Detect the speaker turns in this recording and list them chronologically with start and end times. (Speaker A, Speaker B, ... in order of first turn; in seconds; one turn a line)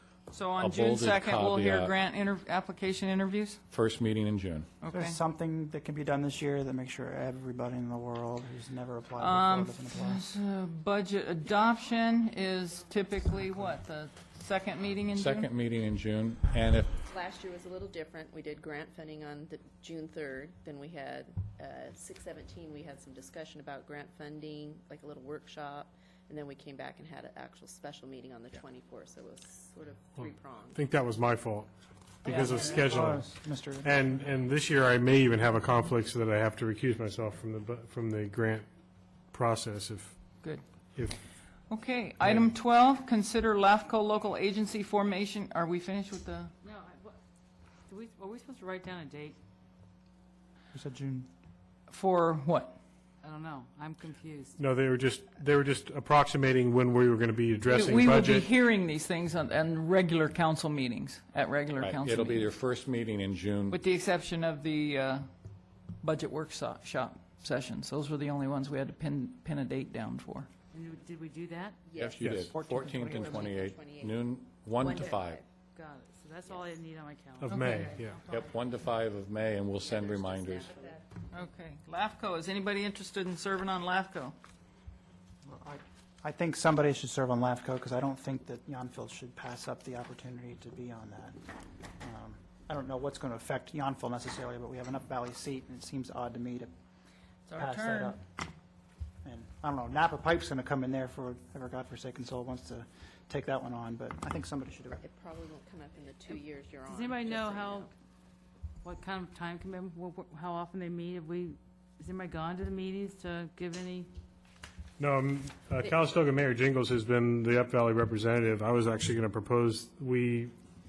Speaker A: 0.3-3.6
Speaker B: 0.6-1.9
Speaker B: 3.7-4.7
Speaker A: 4.8-5.2
Speaker C: 4.9-10.2
Speaker A: 9.2-15.5
Speaker B: 15.1-17.0
Speaker D: 17.1-30.8
Speaker E: 30.2-31.7
Speaker E: 32.2-33.3
Speaker C: 32.2-34.2
Speaker D: 32.2-33.0
Speaker E: 33.8-38.7
Speaker E: 39.3-40.2
Speaker A: 41.7-46.5
Speaker F: 46.6-47.2
Speaker F: 47.9-49.4
Speaker C: 50.7-51.3
Speaker A: 51.9-52.8
Speaker F: 53.2-54.6
Speaker E: 54.6-58.5
Speaker A: 57.7-62.5
Speaker B: 61.8-63.8
Speaker A: 63.7-65.3
Speaker A: 66.0-70.5
Speaker F: 70.7-71.8
Speaker D: 71.9-72.2
Speaker B: 72.0-75.4
Speaker E: 72.2-72.5
Speaker C: 72.5-73.4
Speaker D: 73.0-74.3
Speaker D: 74.8-75.5
Speaker F: 75.8-78.6
Speaker D: 76.5-76.8
Speaker E: 77.4-78.2
Speaker A: 77.5-77.8
Speaker B: 78.3-80.9
Speaker D: 79.8-81.1
Speaker A: 81.3-84.3
Speaker C: 85.5-91.4
Speaker C: 92.0-96.7
Speaker A: 97.5-98.2
Speaker C: 97.6-98.2
Speaker C: 99.2-105.0
Speaker D: 105.0-107.9
Speaker F: 106.9-107.9
Speaker F: 108.8-114.1
Speaker E: 115.0-120.5